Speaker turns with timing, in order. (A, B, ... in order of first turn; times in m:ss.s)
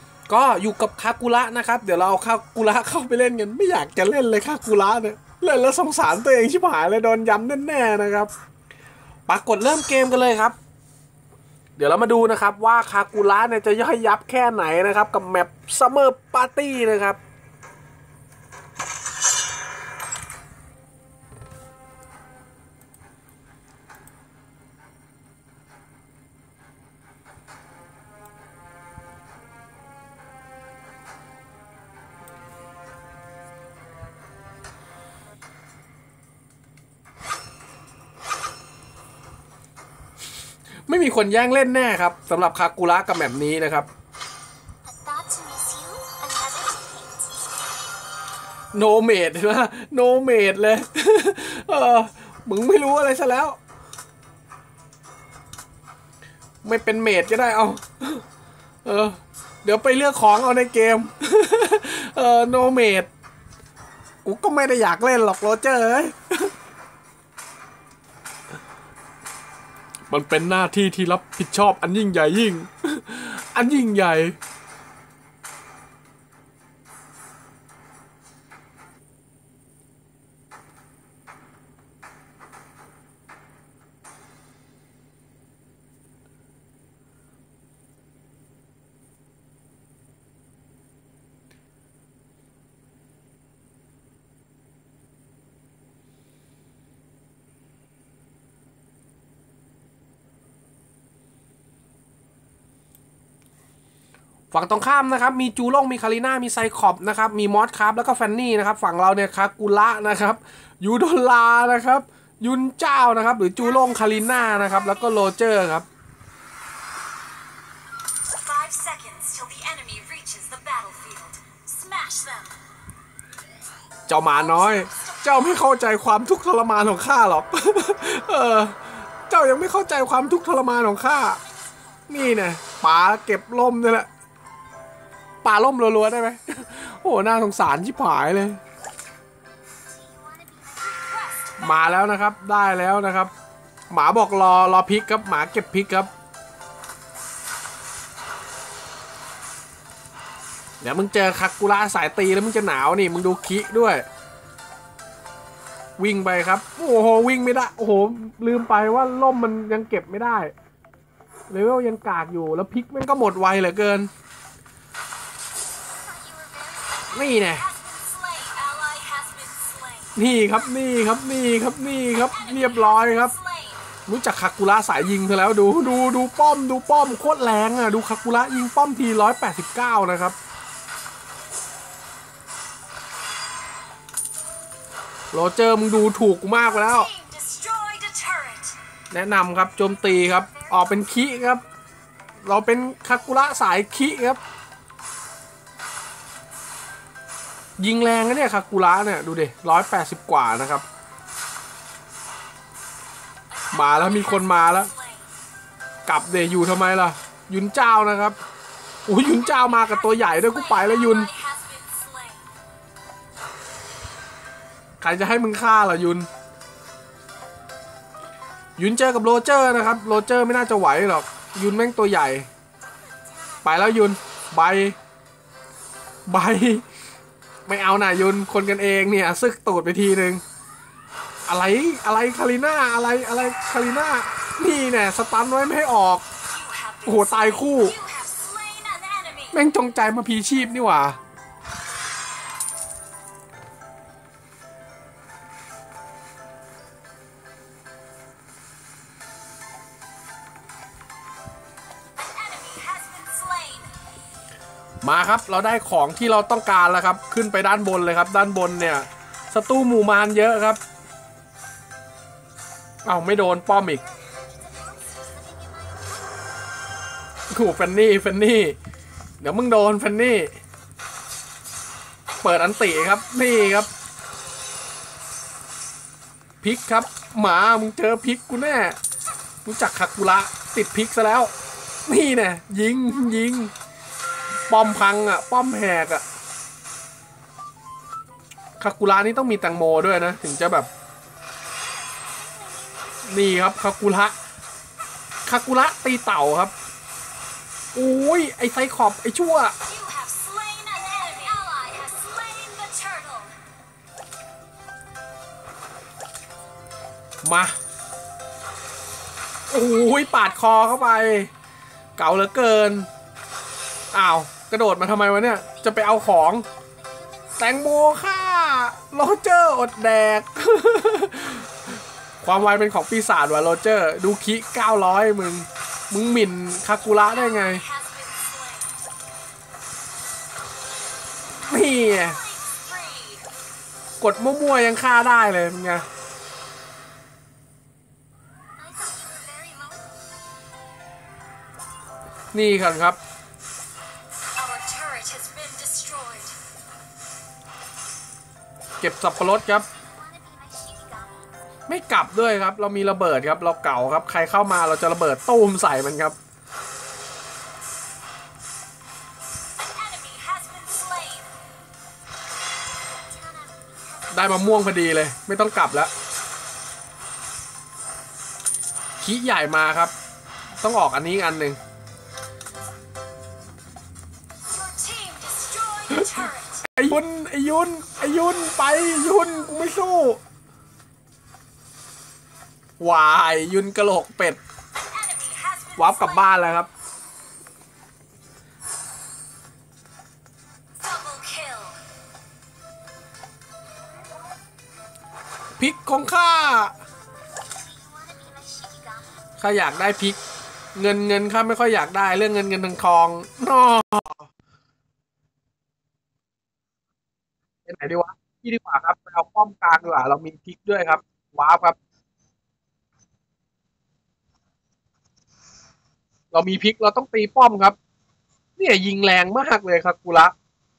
0:00.3-0:08.3 A
0:09.3-0:10.6 A
0:11.8-0:17.2 A
0:40.9-0:43.9 A
0:44.8-0:47.3 B
0:48.7-0:53.6 A
0:56.6-0:58.2 A
0:58.8-1:03.1 A
1:04.2-1:06.5 A
1:10.1-1:14.4 A
1:44.5-1:55.9 A
1:53.8-1:54.9 B
1:58.3-2:02.6 B
2:04.1-2:11.4 A
2:04.6-2:05.2 B
2:12.1-2:14.1 A
2:15.4-2:18.6 A
2:19.9-2:21.7 B
2:21.6-2:23.3 A
2:23.9-2:26.1 A
2:30.8-2:34.0 A
2:36.0-2:40.5 A
2:41.5-2:44.1 A
2:45.8-2:50.1 B
2:47.1-2:47.6 A
2:50.2-2:53.3 A
2:52.4-2:53.8 B
2:54.1-3:00.4 A
3:05.3-3:07.1 A
3:06.8-3:08.8 B
3:09.1-3:11.6 A
3:12.4-3:14.4 A
3:17.8-3:20.8 A
3:23.6-3:25.3 B
3:23.7-3:24.9 A
3:26.1-3:28.4 A
3:29.1-3:31.3 A
3:29.7-3:32.5 B
3:35.0-3:36.3 A
3:38.8-3:42.5 A
3:43.6-3:45.0 A
3:46.3-3:46.8 A
3:47.7-3:50.4 A
3:51.5-3:56.2 A
3:56.4-3:59.7 B
3:57.0-3:58.0 A
3:59.5-4:01.2 A
4:12.2-4:14.0 B
4:15.0-4:20.8 A
4:23.0-4:24.0 A
4:24.3-4:26.3 B
4:27.5-4:28.8 A
4:29.4-4:30.6 A
4:32.4-4:33.9 A
4:32.5-4:33.2 B
4:36.6-4:39.0 A
4:39.6-4:41.5 A
4:42.1-4:43.7 A
4:44.7-4:46.2 A
4:48.8-4:50.9 A
4:51.9-4:53.3 B
4:53.2-4:54.4 A
4:55.4-4:56.7 A
4:58.0-4:59.8 A
4:59.8-5:03.6 B
5:07.4-5:07.7 A
5:09.7-5:11.5 A
5:12.2-5:13.1 A
5:14.1-5:16.7 A
5:17.1-5:17.6 B
5:17.6-5:21.7 A
5:22.4-5:27.8 A
5:27.3-5:29.0 B
5:31.6-5:32.4 A
5:32.2-5:33.5 B
5:34.2-5:36.1 A
5:38.8-5:40.2 B
5:42.5-5:43.2 A
5:44.6-5:46.6 B
5:49.0-5:49.9 A
5:49.9-5:51.5 B
5:51.9-5:56.4 A
5:59.8-6:01.5 B
6:03.3-6:04.3 B
6:04.3-6:06.1 A
6:09.2-6:10.1 A
6:10.8-6:11.8 A
6:14.7-6:16.9 B
6:16.2-6:20.4 A
6:23.0-6:24.6 A
6:24.9-6:26.5 B
6:26.0-6:26.9 A
6:31.0-6:32.0 B
6:35.8-6:36.9 A
6:37.8-6:39.4 B
6:39.6-6:40.4 A
6:41.0-6:44.5 A
6:47.9-6:52.0 A
6:56.5-6:58.0 A
6:58.8-7:00.5 A